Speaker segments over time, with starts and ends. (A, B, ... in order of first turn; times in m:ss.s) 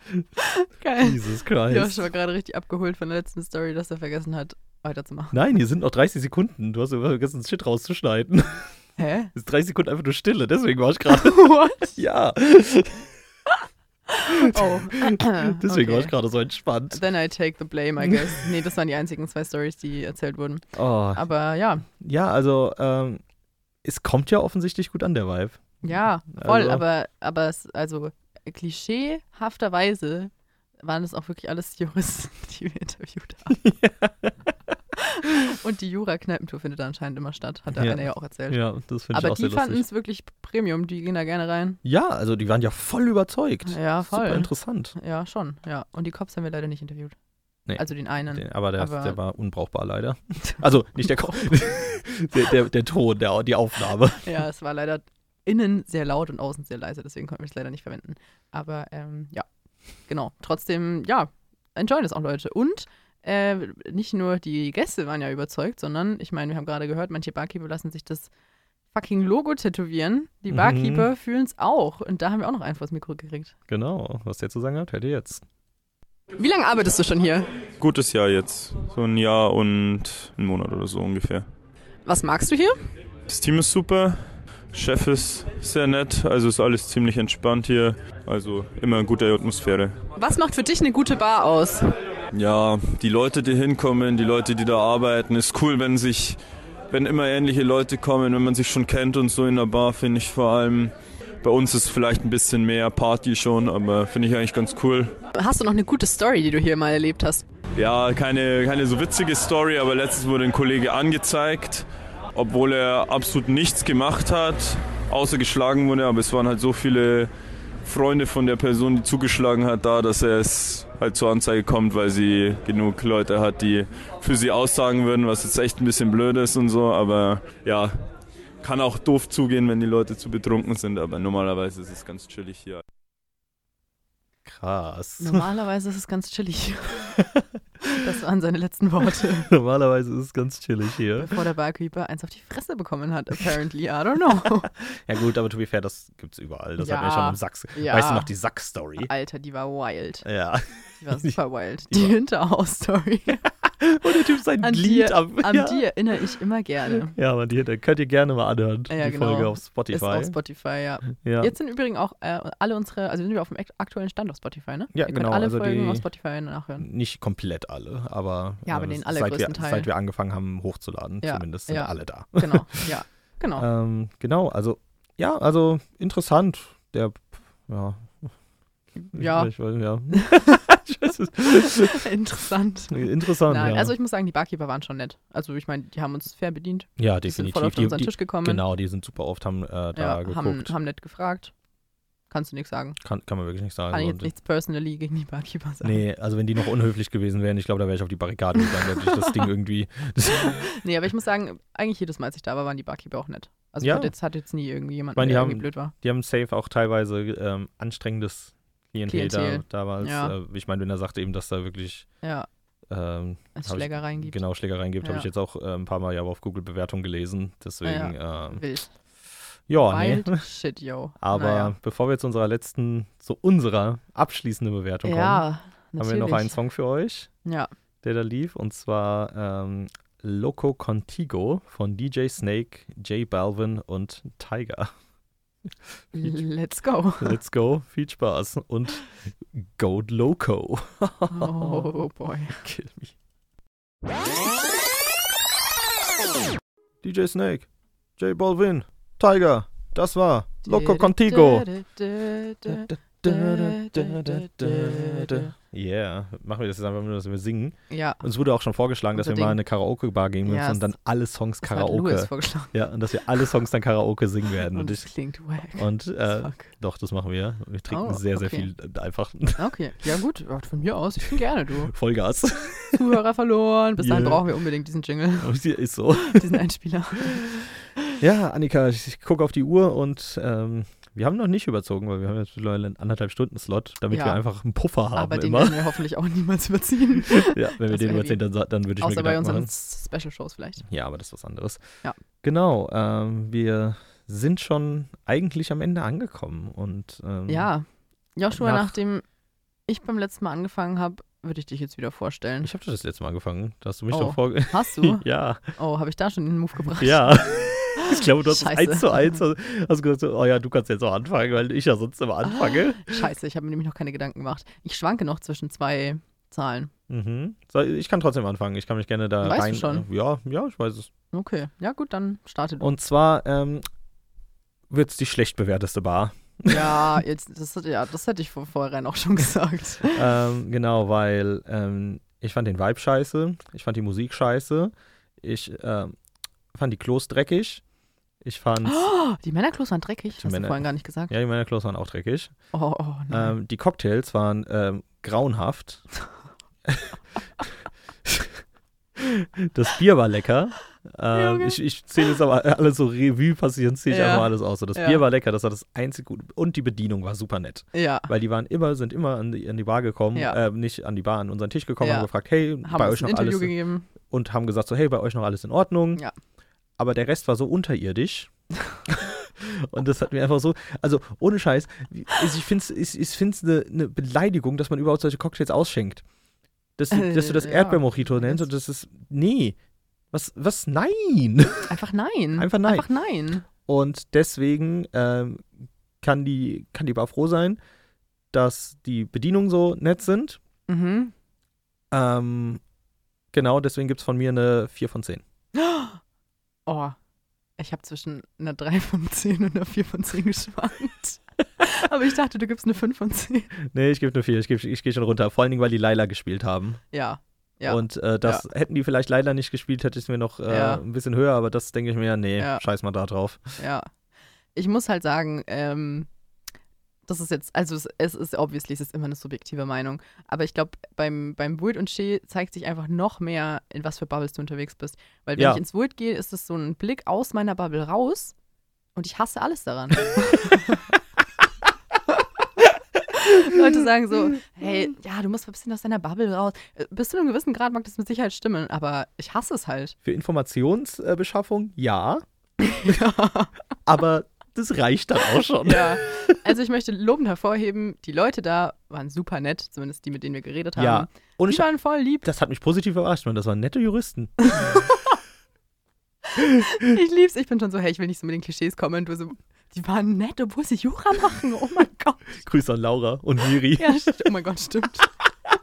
0:00.4-0:05.4 A
0:01.0-0:02.1 B
0:05.3-0:08.7 B
0:09.0-0:09.3 A
0:09.3-0:13.1 B
0:11.1-0:11.9 A
0:14.1-0:16.1 A
0:14.3-0:17.0 B
0:16.9-0:21.9 A
0:20.7-0:21.2 B
0:21.9-0:23.2 B
0:23.8-0:26.8 B
0:25.8-0:30.3 A
0:30.8-0:33.6 A
0:33.5-0:34.3 B
0:35.0-0:38.6 A
0:37.7-0:39.8 B
0:39.1-0:41.8 A
0:41.8-0:45.0 B
0:43.6-0:47.1 A
0:47.7-0:54.3 B
0:47.8-0:49.2 A
0:54.2-0:59.4 A
1:00.1-1:08.3 A
1:08.9-1:13.5 A
1:10.5-1:11.1 B
1:13.7-1:15.4 B
1:16.4-1:17.5 A
1:17.8-1:21.4 C
1:22.0-1:22.8 A
1:23.3-1:30.0 C
1:30.2-1:31.9 A
1:32.3-1:36.4 C
1:36.9-1:45.1 C
1:45.3-1:47.4 A
1:47.8-1:57.3 C
1:57.8-2:07.9 C
2:08.6-2:12.8 C
2:14.4-2:15.4 B
2:15.2-2:17.2 A
2:17.2-2:18.0 B
2:17.9-2:19.5 A
2:19.5-2:21.3 B
2:21.2-2:24.7 A
2:24.6-2:29.1 B
2:26.8-2:28.3 A
2:29.0-2:30.2 A
2:30.2-2:31.4 B
2:31.0-2:33.4 A
2:33.6-2:35.9 B
2:34.6-2:37.1 A
2:36.9-2:40.4 B
2:38.9-2:46.9 A
2:41.2-2:41.5 B
2:44.9-2:46.1 B
2:46.8-2:52.9 B
2:48.6-2:49.9 A
2:51.2-2:53.7 A
2:53.6-2:58.3 B
2:59.0-3:02.1 B
2:59.1-2:59.5 A
3:00.1-3:00.6 A
3:01.8-3:08.6 A
3:02.9-3:03.9 B
3:07.0-3:10.7 B
3:09.9-3:11.5 A
3:12.3-3:13.0 A
3:13.0-3:14.3 B
3:13.9-3:16.0 A
3:15.8-3:20.6 B
3:18.9-3:19.3 A
3:20.4-3:25.9 A
3:23.8-3:24.1 B
3:25.2-3:32.1 B
3:29.0-3:30.3 A
3:32.2-3:32.5 A
3:32.9-3:38.6 B
3:33.6-3:34.4 A
3:35.0-3:35.3 A
3:37.8-3:38.9 A
3:39.7-3:40.4 B
3:39.8-3:41.7 A
3:41.2-3:45.5 B
3:45.0-3:46.6 A
3:46.0-3:47.3 B
3:47.4-3:47.7 A
3:48.0-3:54.9 B
3:56.2-3:57.4 A
3:57.2-4:01.9 B
4:01.3-4:02.6 A
4:02.6-4:03.1 B
4:07.0-4:11.7 B
4:10.6-4:15.5 A
4:12.6-4:25.1 B
4:17.9-4:18.2 A
4:19.1-4:19.6 A
4:20.4-4:20.9 A
4:21.6-4:22.7 A
4:24.7-4:26.7 A
4:25.8-4:29.6 B
4:27.9-4:28.7 A
4:29.6-4:31.9 A
4:31.8-4:33.0 B
4:32.9-4:35.6 A
4:34.0-4:34.4 B
4:35.4-4:36.5 B
4:36.2-4:37.5 A
4:38.2-4:45.9 B
4:44.1-4:44.4 A
4:45.1-4:48.4 A
4:47.3-4:49.7 B
4:49.0-4:50.8 A
4:50.8-4:51.8 B
4:52.4-4:57.7 B
4:57.5-4:59.2 A
4:58.5-4:59.0 B
4:59.9-5:02.7 A
5:02.6-5:05.7 B
5:04.1-5:07.4 A
5:07.0-5:13.2 B
5:08.0-5:09.4 A
5:13.0-5:16.9 A
5:17.1-5:21.1 B
5:19.4-5:20.0 A
5:21.3-5:22.9 A
5:22.8-5:23.8 B
5:24.9-5:27.1 B
5:26.7-5:30.2 A
5:30.1-5:36.2 B
5:36.7-5:37.8 B
5:38.4-5:39.0 B
5:38.8-5:41.3 A
5:40.4-5:42.5 B
5:42.7-5:43.5 A
5:43.3-5:46.1 B
5:46.9-5:47.1 B
5:48.2-5:48.6 B
5:49.2-6:06.2 B
5:51.3-5:51.8 A
5:54.1-5:55.2 A
5:57.9-5:58.3 A
6:02.0-6:02.3 A
6:02.8-6:04.1 A
6:07.0-6:08.5 B
6:09.1-6:16.2 B
6:17.0-6:19.8 B
6:17.1-6:18.6 A
6:20.3-6:21.9 B
6:21.9-6:23.6 A
6:22.6-6:23.1 B
6:23.6-6:25.7 B
6:26.2-6:27.8 B
6:28.5-6:30.6 B
6:30.9-6:31.3 A
6:32.1-6:32.8 B
6:33.5-6:35.4 B
6:35.8-6:36.2 A
6:36.9-6:37.2 A
6:37.8-6:43.7 A
6:43.8-6:47.0 B
6:47.1-6:48.6 A
6:47.9-6:53.7 B
6:50.7-6:51.0 A
6:52.6-6:52.8 A
6:53.8-6:54.1 A
6:54.7-6:56.3 A
6:57.3-7:08.6 A
7:05.6-7:05.8 B
7:09.2-7:10.9 A
7:13.3-7:20.2 A
7:20.2-7:22.4 B
7:22.8-7:23.7 A
7:24.0-7:26.6 B
7:25.8-7:32.5 A
7:31.0-7:35.0 B
7:34.7-7:35.1 A
7:36.6-7:42.5 A
7:42.5-7:44.5 B
7:43.9-7:45.3 A